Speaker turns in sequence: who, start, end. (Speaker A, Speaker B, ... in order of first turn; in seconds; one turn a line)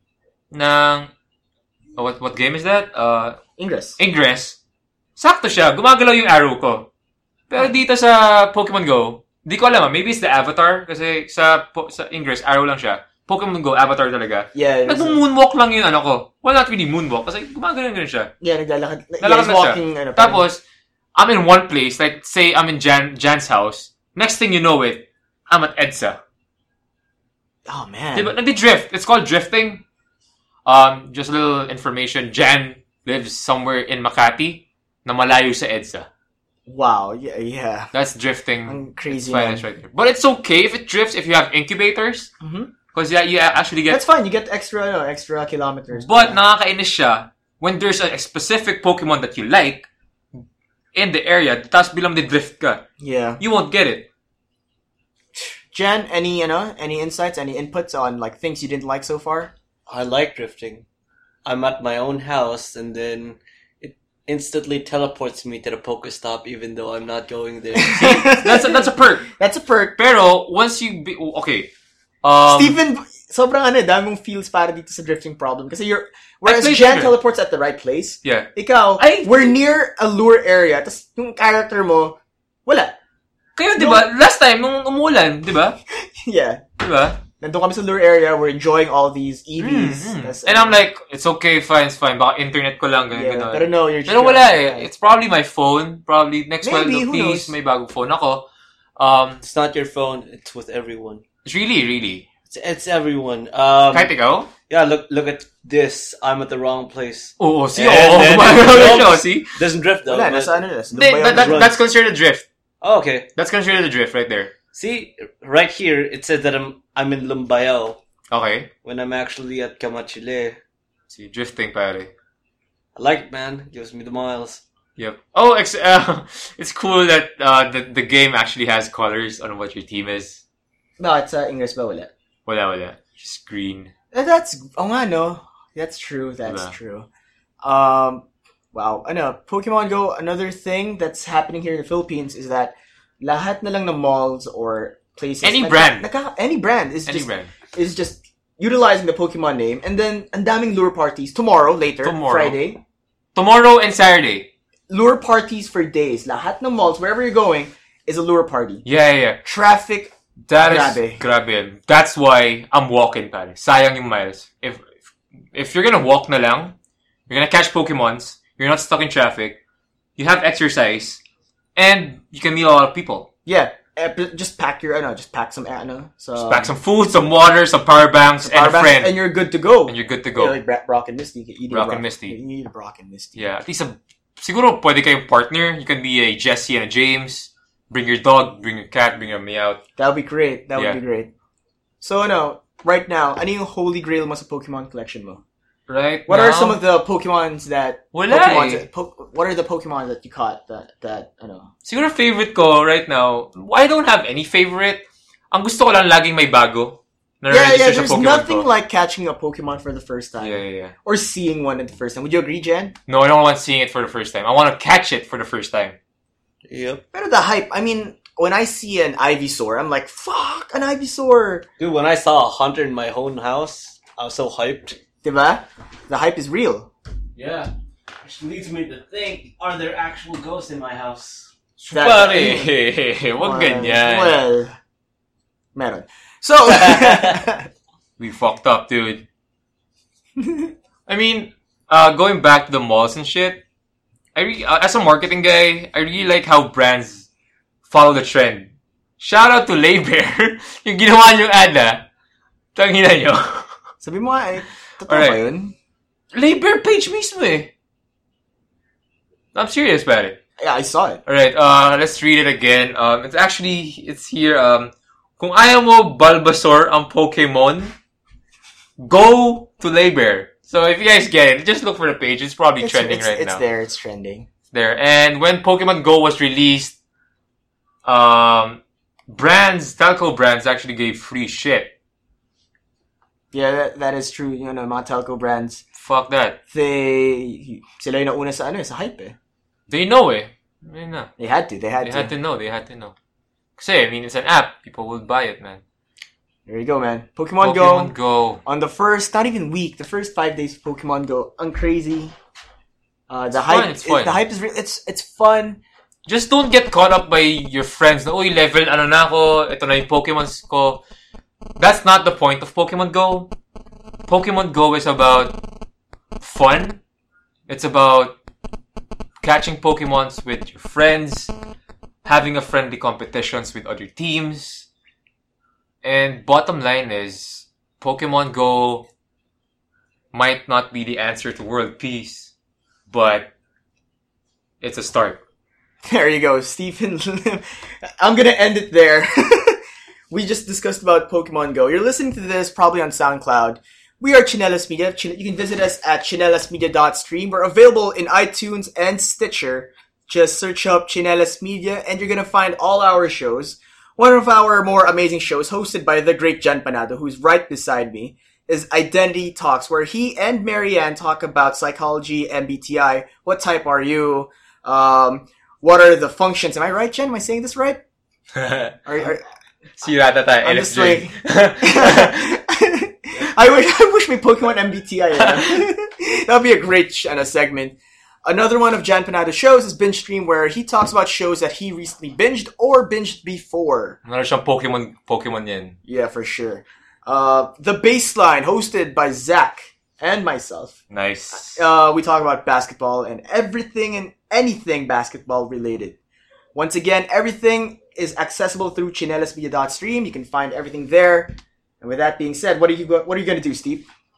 Speaker A: 0.5-1.1
Speaker A: 2.0-3.4
Speaker B: 3.6-4.0
Speaker A: 4.0-4.6
Speaker A: 5.2-6.9
Speaker A: 7.5-18.3
Speaker B: 14.5-15.2
Speaker B: 18.4-20.4
Speaker A: 19.2-20.6
Speaker A: 21.1-26.2
Speaker B: 27.7-28.4
Speaker A: 28.1-29.8
Speaker A: 30.7-36.1
Speaker B: 36.7-37.9
Speaker A: 37.9-42.3
Speaker B: 38.7-39.6
Speaker B: 42.4-42.7
Speaker A: 42.9-44.0
Speaker B: 43.9-46.4
Speaker A: 45.9-49.9
Speaker A: 50.9-52.9
Speaker B: 53.0-53.4
Speaker A: 53.4-54.1
Speaker B: 55.4-59.5
Speaker C: 59.9-60.9
Speaker C: 61.5-68.1
Speaker B: 67.8-70.0
Speaker A: 68.0-69.3
Speaker A: 70.0-71.7
Speaker A: 72.2-72.8
Speaker B: 72.5-83.0
Speaker A: 76.5-77.2
Speaker A: 78.2-79.6
Speaker A: 83.6-85.8
Speaker B: 83.8-84.0
Speaker B: 85.9-86.7
Speaker A: 86.8-87.2
Speaker B: 87.3-90.8
Speaker A: 89.6-98.5
Speaker B: 93.1-94.9
Speaker B: 96.6-97.5
Speaker A: 99.0-99.4
Speaker C: 99.4-101.2
Speaker A: 101.5-102.2
Speaker C: 102.5-104.1
Speaker A: 103.9-104.5
Speaker C: 104.7-110.6
Speaker A: 107.4-109.6
Speaker B: 110.1-111.7
Speaker A: 110.9-112.5
Speaker C: 111.2-111.7
Speaker C: 112.8-113.3
Speaker A: 113.3-114.5
Speaker C: 114.7-118.0
Speaker A: 118.3-118.7
Speaker C: 118.8-120.6
Speaker A: 121.1-122.1
Speaker C: 123.0-124.6
Speaker A: 125.0-130.4
Speaker B: 131.0-132.1
Speaker A: 132.5-133.9
Speaker B: 134.1-137.1
Speaker A: 136.5-136.8
Speaker B: 137.6-152.8
Speaker A: 145.4-146.1
Speaker A: 147.1-147.5
Speaker A: 152.0-152.6
Speaker A: 153.3-154.5
Speaker B: 154.9-158.8
Speaker A: 158.8-159.4
Speaker B: 159.4-161.2
Speaker A: 160.5-164.9
Speaker A: 165.5-166.8
Speaker A: 167.3-169.6
Speaker A: 170.2-171.2
Speaker A: 171.8-173.3
Speaker B: 173.5-176.7
Speaker A: 176.4-179.2
Speaker B: 178.4-183.4
Speaker A: 179.9-180.6
Speaker A: 181.7-182.4
Speaker A: 183.4-189.8
Speaker B: 190.0-191.3
Speaker B: 192.0-195.4
Speaker A: 195.9-196.8
Speaker B: 196.3-201.7
Speaker A: 198.1-198.9
Speaker A: 201.8-208.7
Speaker B: 207.5-212.9
Speaker A: 210.4-210.9
Speaker A: 213.1-216.0
Speaker C: 216.7-217.0
Speaker B: 217.1-221.7
Speaker C: 221.8-225.0
Speaker B: 225.2-226.9
Speaker C: 227.4-227.7
Speaker C: 228.2-232.6
Speaker A: 231.8-234.4
Speaker B: 231.9-232.7
Speaker B: 233.4-234.7
Speaker B: 235.8-237.7
Speaker C: 236.7-237.4
Speaker A: 238.2-239.3
Speaker A: 241.1-243.6
Speaker A: 244.3-247.3
Speaker A: 247.9-252.1
Speaker A: 252.8-253.7
Speaker B: 254.0-255.8
Speaker A: 255.1-255.4
Speaker A: 256.3-257.7
Speaker A: 259.5-260.4
Speaker B: 260.6-261.2
Speaker A: 261.3-267.9
Speaker A: 269.0-273.6
Speaker B: 272.8-274.5
Speaker A: 274.7-276.9
Speaker A: 278.1-281.9
Speaker B: 283.5-285.8
Speaker A: 285.9-286.6
Speaker B: 286.7-289.4
Speaker A: 289.9-291.3
Speaker B: 291.4-292.3
Speaker A: 292.0-293.1
Speaker A: 293.8-295.8
Speaker B: 296.7-298.1
Speaker A: 297.6-298.6
Speaker B: 298.6-302.3
Speaker B: 303.3-305.8
Speaker A: 303.5-304.4
Speaker A: 306.3-311.0
Speaker A: 311.8-313.5
Speaker A: 314.3-315.6
Speaker A: 316.4-317.0
Speaker A: 317.7-318.4
Speaker A: 319.4-321.5
Speaker A: 322.2-324.9
Speaker A: 326.0-329.1
Speaker A: 330.3-332.5
Speaker A: 333.1-333.5
Speaker A: 334.8-335.4
Speaker B: 336.1-368.0
Speaker A: 368.5-369.0
Speaker B: 369.1-369.4
Speaker A: 370.0-372.4
Speaker B: 370.6-384.2
Speaker A: 375.4-375.8
Speaker A: 384.2-386.0
Speaker B: 386.1-391.0
Speaker A: 391.1-391.8
Speaker B: 391.6-396.2
Speaker B: 396.7-404.1